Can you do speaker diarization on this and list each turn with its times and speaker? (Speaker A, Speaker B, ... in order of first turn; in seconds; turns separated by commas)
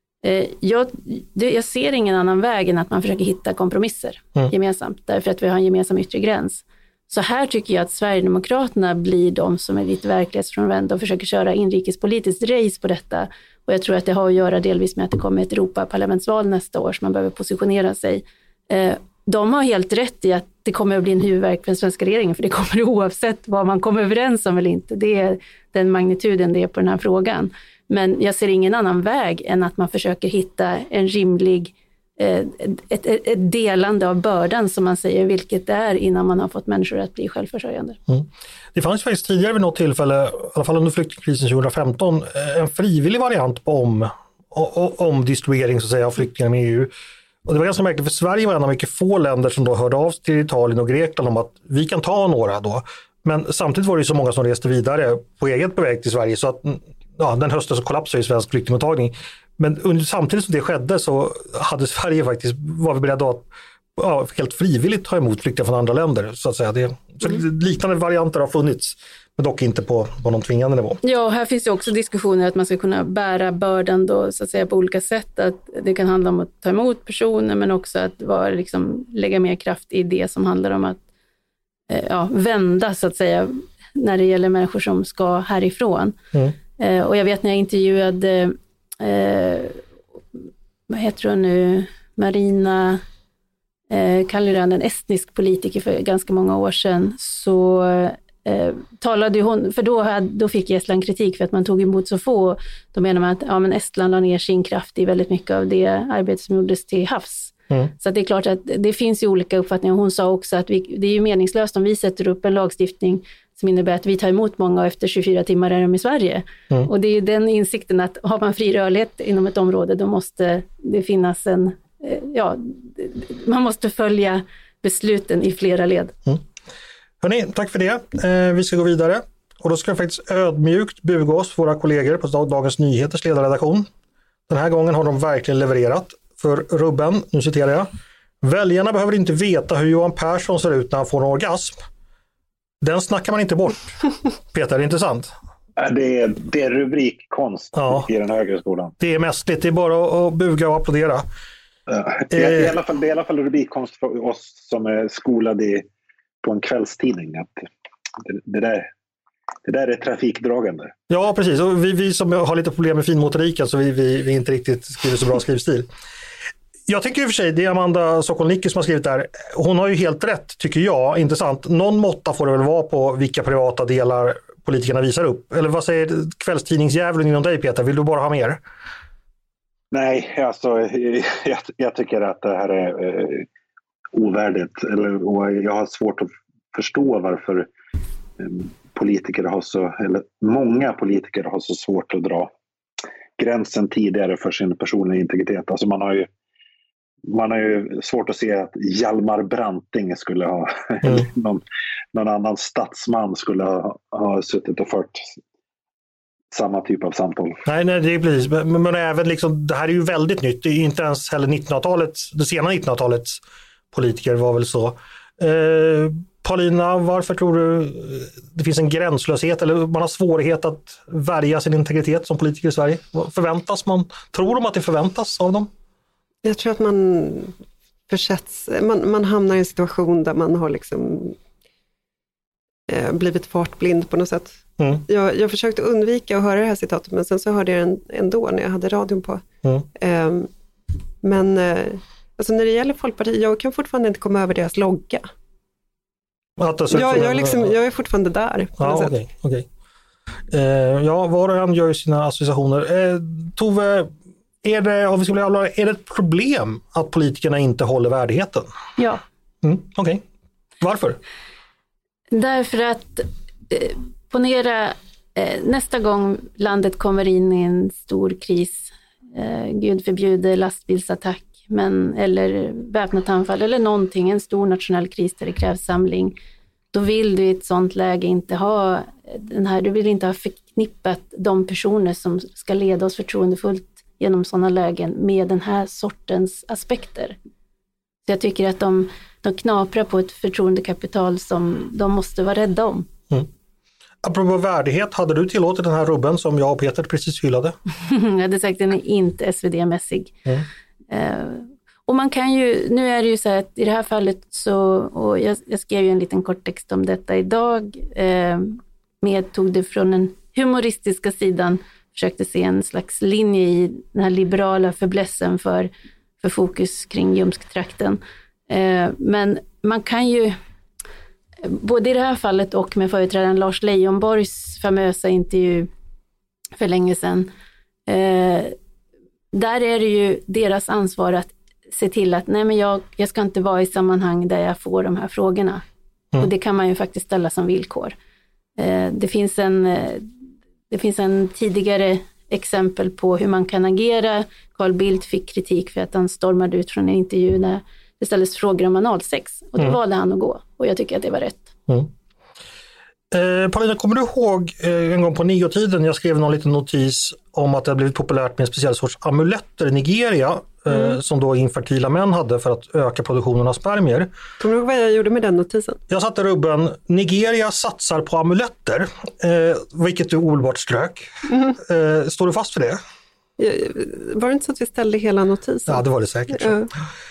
Speaker A: 0.2-38.0, Speaker B: 38.1-46.9, Speaker B: 47.5-71.0, Speaker A: 71.0-81.0, Speaker A: 81.9-86.2, Speaker A: 86.8-89.8, Speaker A: 90.9-93.0, Speaker A: 93.9-126.1, Speaker B: 127.2-133.9, Speaker B: 134.5-137.9, Speaker B: 138.4-141.7, Speaker B: 142.8-144.0, Speaker B: 144.5-145.3, Speaker C: 145.8-148.9, Speaker B: 147.7-148.1, Speaker B: 149.0-151.2, Speaker C: 151.9-155.8, Speaker B: 152.3-152.7, Speaker C: 156.4-157.6, Speaker C: 158.2-158.9, Speaker C: 159.6-160.9, Speaker B: 161.1-165.9, Speaker B: 166.9-178.6, Speaker C: 179.9-183.5, Speaker C: 184.1-187.7, Speaker C: 188.4-192.5, Speaker C: 193.4-196.3, Speaker C: 197.3-201.6, Speaker C: 202.1-205.3, Speaker C: 206.5-207.6, Speaker B: 207.7-213.4, Speaker B: 213.9-225.7, Speaker D: 226.4-227.5, Speaker D: 228.1-231.3, Speaker D: 232.9-239.4, Speaker B: 234.8-235.0, Speaker D: 239.9-240.5, Speaker D: 241.2-245.2, Speaker B: 246.6-247.7, Speaker D: 246.9-249.1, Speaker B: 248.8-249.7, Speaker B: 250.5-254.1, Speaker B: 254.6-258.7, Speaker B: 259.6-260.2, Speaker B: 260.8-261.2, Speaker A: 262.3-276.4, Speaker A: 276.9-287.4, Speaker A: 288.3-293.1, Speaker B: 294.2-297.8, Speaker A: 298.0-300.3, Speaker A: 301.1-315.9, Speaker A: 316.4-320.6, Speaker A: 321.6-325.9, Speaker A: 326.8-327.5, Speaker A: 328.1-328.7, Speaker A: 329.5-335.8, Speaker A: 336.4-338.1, Speaker A: 338.8-340.3, Speaker A: 340.9-351.7, Speaker B: 353.3-364.3, Speaker D: 364.6-366.0, Speaker B: 366.1-373.0, Speaker D: 373.6-376.9, Speaker B: 375.9-376.8